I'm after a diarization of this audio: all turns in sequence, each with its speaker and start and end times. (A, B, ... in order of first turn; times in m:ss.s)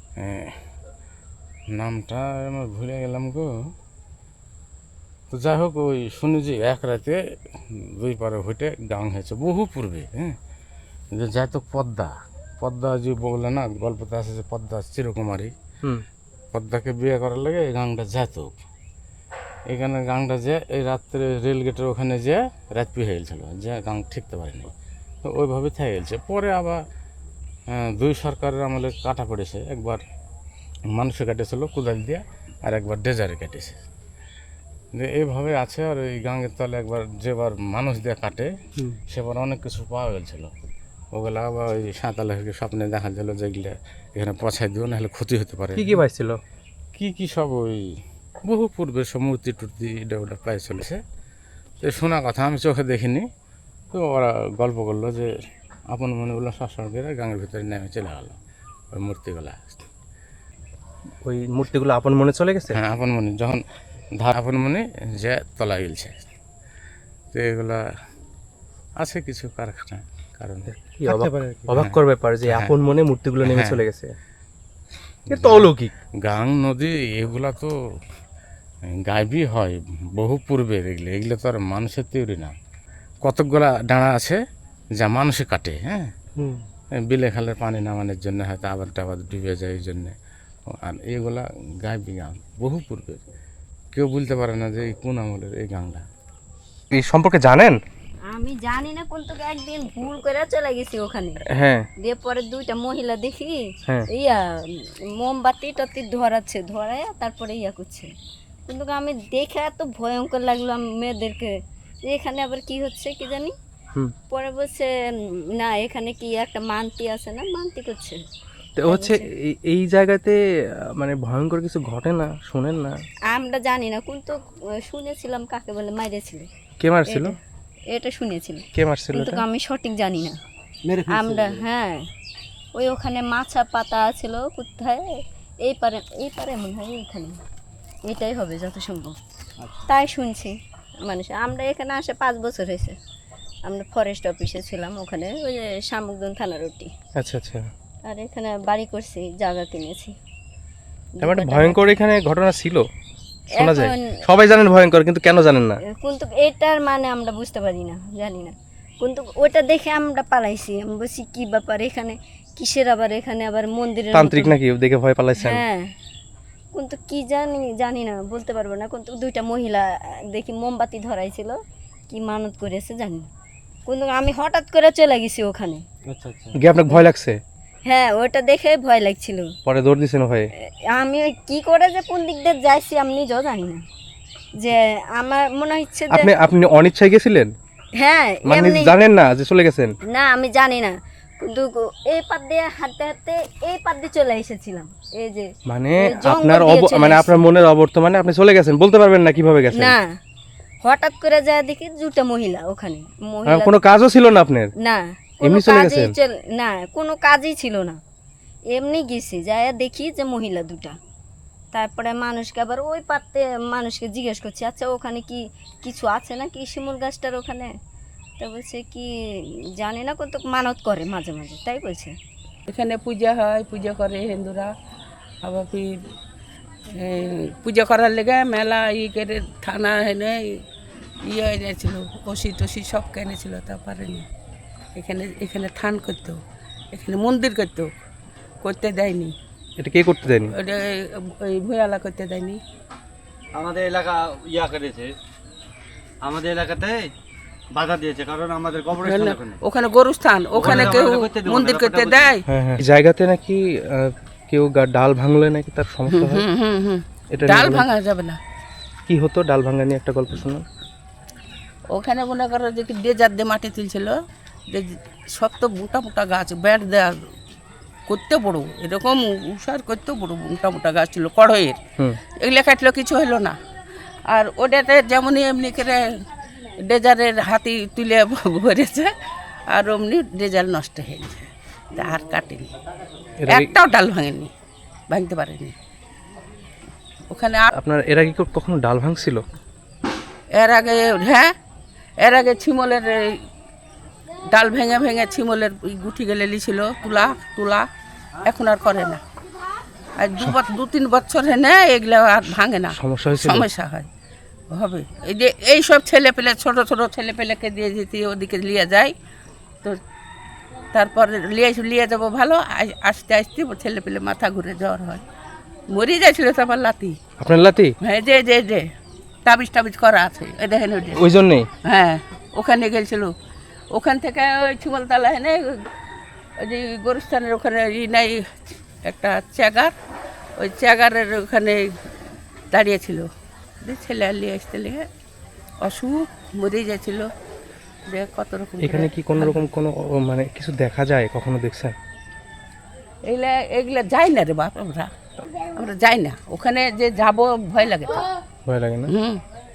0:00.2-0:00.6 A
0:01.7-0:03.7 A
0:05.3-0:10.4 A
0:11.1-0:15.5 A
0:16.5-0:18.6 A
0:19.7-0:24.7 A
0:25.2-0:26.8 A
0:27.7-0:30.0 A
0:30.9-0:33.8 A
0:34.9-0:38.5 A
0:39.1-0:40.5 A
0:41.1-0:46.0 A
0:45.8-0:46.4 B
0:47.0-0:51.0 A
0:51.8-0:53.3 A
0:53.9-0:55.3 A
0:55.9-0:58.4 A
0:58.9-0:59.8 A
1:01.2-1:02.8 B
1:02.7-1:03.6 A
1:04.2-1:06.3 A
1:07.3-1:07.8 A
1:09.0-1:10.7 A
1:10.7-1:14.1 B
1:11.0-1:11.6 C
1:11.8-1:12.8 A
1:13.4-1:13.8 A
1:15.3-1:15.9 B
1:15.3-1:15.7 A
1:16.2-1:17.7 A
1:19.0-1:22.5 A
1:23.2-1:24.4 A
1:25.0-1:26.1 A
1:27.0-1:30.1 A
1:30.7-1:33.2 A
1:33.9-1:36.0 A
1:36.9-1:37.8 B
1:38.3-1:41.4 D
1:41.5-1:41.8 B
1:42.0-1:43.6 D
1:44.1-1:48.1 D
1:48.7-1:51.5 D
1:52.0-1:53.5 D
1:54.3-1:54.9 D
1:55.6-1:58.2 D
1:58.8-2:00.4 B
1:58.8-1:59.2 D
2:00.9-2:03.0 B
2:03.3-2:06.5 D
2:06.8-2:07.4 B
2:07.1-2:07.3 D
2:07.9-2:10.4 D
2:08.8-2:09.4 B
2:10.9-2:11.6 C
2:11.1-2:12.0 D
2:12.8-2:17.4 D
2:18.1-2:19.2 D
2:19.9-2:23.0 D
2:23.7-2:26.9 D
2:27.2-2:27.7 B
2:28.0-2:30.1 D
2:31.2-2:32.0 D
2:31.2-2:32.9 B
2:33.5-2:34.1 D
2:33.5-2:35.8 B
2:35.9-2:44.6 D
2:44.1-2:45.6 B
2:45.4-2:45.9 D
2:46.7-2:51.6 D
2:52.1-2:53.3 D
2:53.9-2:55.8 D
2:56.1-2:56.6 C
2:56.6-2:57.4 B
2:57.9-2:59.5 D
2:59.7-3:00.5 B
3:00.6-3:03.8 D
3:04.6-3:06.3 D
3:06.1-3:07.5 B
3:08.0-3:09.0 D
3:08.4-3:09.9 B
3:10.1-3:17.4 D
3:15.7-3:20.0 B
3:19.7-3:20.2 D
3:20.8-3:23.8 D
3:23.5-3:24.7 B
3:24.8-3:28.0 D
3:25.4-3:26.1 B
3:28.7-3:31.0 D
3:31.7-3:37.7 D
3:38.4-3:42.1 D
3:42.7-3:44.7 E
3:45.4-3:45.9 E
3:47.0-3:50.6 E
3:51.2-3:54.3 E
3:55.0-3:56.4 E
3:56.9-3:57.9 E
3:58.6-3:59.4 E
3:59.8-4:00.5 B
4:00.6-4:02.6 E
4:03.5-4:05.2 C
4:06.2-4:07.1 C
4:07.7-4:09.6 C
4:09.0-4:12.4 E
4:10.6-4:12.4 C
4:10.6-4:10.9 B
4:12.5-4:16.4 B
4:16.1-4:18.4 E
4:17.3-4:17.8 B
4:19.1-4:20.6 B
4:21.9-4:27.2 E
4:28.1-4:31.8 E
4:32.4-4:33.6 E
4:34.3-4:36.0 E
4:36.8-4:39.1 E
4:39.7-4:42.7 E
4:43.4-4:43.7 B
4:43.5-4:44.5 E
4:45.1-4:45.7 E
4:47.3-4:47.7 E
4:47.7-4:49.4 B
4:50.5-4:51.5 E
4:52.2-4:53.4 E
4:54.5-4:57.9 E
4:58.4-4:59.2 E
5:00.2-5:04.1 E
5:02.9-5:03.7 B
5:04.7-5:09.1 E
5:10.9-5:15.2 E
5:15.9-5:17.2 E
5:17.4-5:17.9 B
5:18.0-5:18.9 E
5:19.4-5:21.2 E
5:21.2-5:21.7 B
5:21.9-5:23.3 E
5:23.9-5:25.8 E
5:26.6-5:28.4 E
5:29.0-5:29.9 E
5:30.6-5:31.9 E
5:32.7-5:33.3 E
5:33.8-5:35.1 E
5:35.8-5:37.3 E
5:38.1-5:39.7 E
5:38.8-5:42.0 B
5:43.2-5:45.1 E
5:45.8-5:48.2 E
5:48.7-5:49.1 B
5:49.1-5:49.4 E